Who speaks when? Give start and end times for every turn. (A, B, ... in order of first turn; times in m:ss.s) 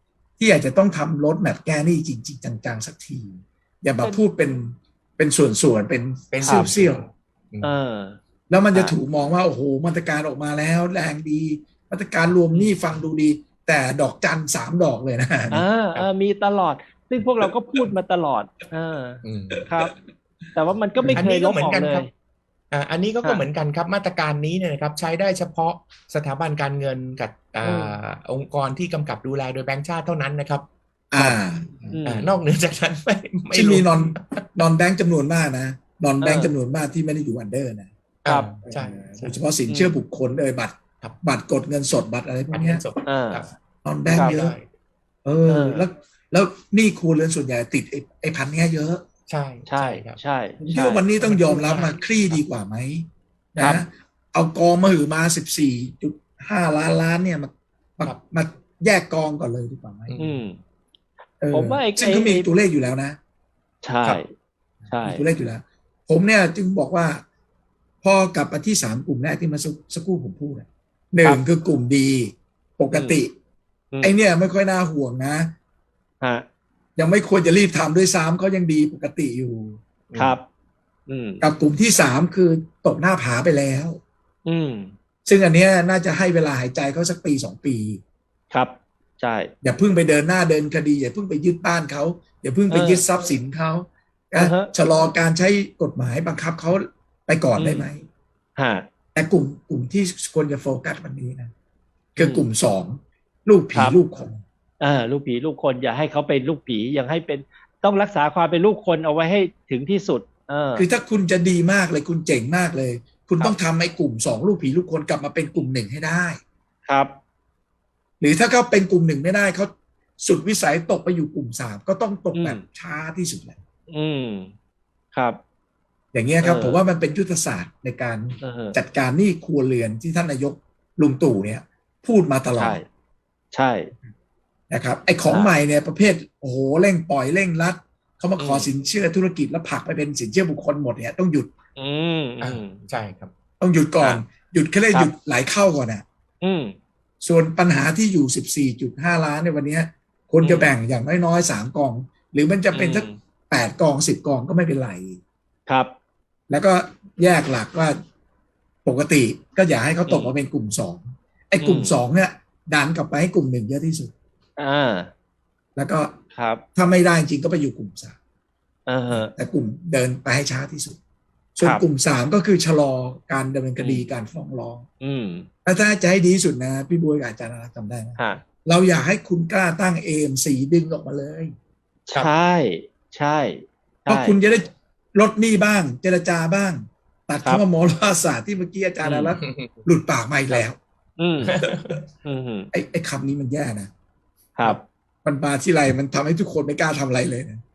0:00.4-0:07.0 A
0:06.3-0:07.7 B
0:06.4-0:06.7 C
0:07.6-0:08.2 C
0:08.5-0:15.6 A
0:15.5-0:19.9 C
0:17.4-0:17.9 A
0:19.2-0:19.6 B
0:20.5-0:22.1 C
0:21.0-0:21.2 A
0:21.1-0:22.1 B
0:22.7-0:30.7 B
0:27.6-0:27.9 C
0:31.1-0:32.0 A
0:31.9-0:32.3 C
0:32.0-0:34.4 B
0:33.5-0:37.9 A
0:36.2-0:36.5 C
0:38.2-0:39.4 B
0:38.7-0:42.8 A
0:39.7-0:40.0 C
0:42.5-0:43.5 B
0:43.0-0:43.5 C
0:43.8-0:44.6 A
0:44.1-0:44.4 C
0:44.2-0:44.7 B
0:45.2-0:49.1 A
0:45.5-0:45.8 C
0:49.3-0:50.2 B
0:49.7-0:51.0 C
0:50.6-1:00.2 A
0:51.2-0:52.4 B
0:53.6-0:53.8 C
1:00.1-1:00.4 B
1:00.2-1:00.6 C
1:01.4-1:03.2 A
1:01.5-1:02.5 C
1:03.8-1:04.3 C
1:04.9-1:07.2 A
1:04.9-1:05.2 C
1:08.0-1:13.3 A
1:12.9-1:13.2 C
1:14.0-1:15.5 A
1:17.0-1:19.8 A
1:20.1-1:20.4 B
1:20.1-1:20.4 C
1:21.1-1:21.4 C
1:21.4-1:24.0 A
1:24.4-1:24.9 C
1:25.2-1:28.0 A
1:28.5-1:29.5 C
1:29.6-1:38.1 A
1:32.7-1:33.0 C
1:34.4-1:34.7 C
1:37.6-1:37.9 C
1:38.6-1:38.9 C
1:39.1-1:41.5 A
1:42.2-1:44.4 A
1:42.2-1:42.4 C
1:43.7-1:44.0 C
1:44.8-1:50.8 C
1:50.8-1:56.4 A
1:56.9-1:57.1 C
1:58.2-2:03.6 A
2:02.4-2:02.6 C
2:03.9-2:04.5 C
2:05.1-2:05.4 C
2:06.1-2:12.8 A
2:06.4-2:06.8 C
2:08.4-2:08.8 C
2:12.6-2:12.8 C
2:13.5-2:13.9 C
2:14.7-2:21.5 A
2:15.3-2:15.6 C
2:18.4-2:18.7 C
2:21.8-2:22.8 C
2:22.4-2:23.3 B
2:23.6-2:26.0 A
2:26.4-2:26.8 C
2:27.2-2:35.2 A
2:30.4-2:30.7 C
2:32.7-2:33.2 C
2:35.7-2:35.9 C
2:36.5-2:38.0 A
2:38.8-2:44.1 A
2:40.1-2:40.4 C
2:41.6-2:42.0 C
2:44.6-2:45.1 C
2:45.8-2:46.2 A
2:46.3-2:46.6 C
2:46.8-2:48.2 A
2:48.9-2:49.3 C
2:49.1-2:51.0 A
2:51.6-2:54.9 A
2:53.8-2:54.1 C
2:55.0-2:55.5 C
2:55.6-3:01.5 A
2:58.2-2:58.4 C
3:02.1-3:04.4 C
3:04.1-3:10.8 A
3:09.0-3:09.3 C
3:09.4-3:09.8 B
3:11.2-3:11.6 C
3:11.4-3:12.0 B
3:11.6-3:11.9 A
3:12.2-3:12.7 C
3:12.7-3:13.9 A
3:14.6-3:14.8 C
3:15.2-3:17.6 A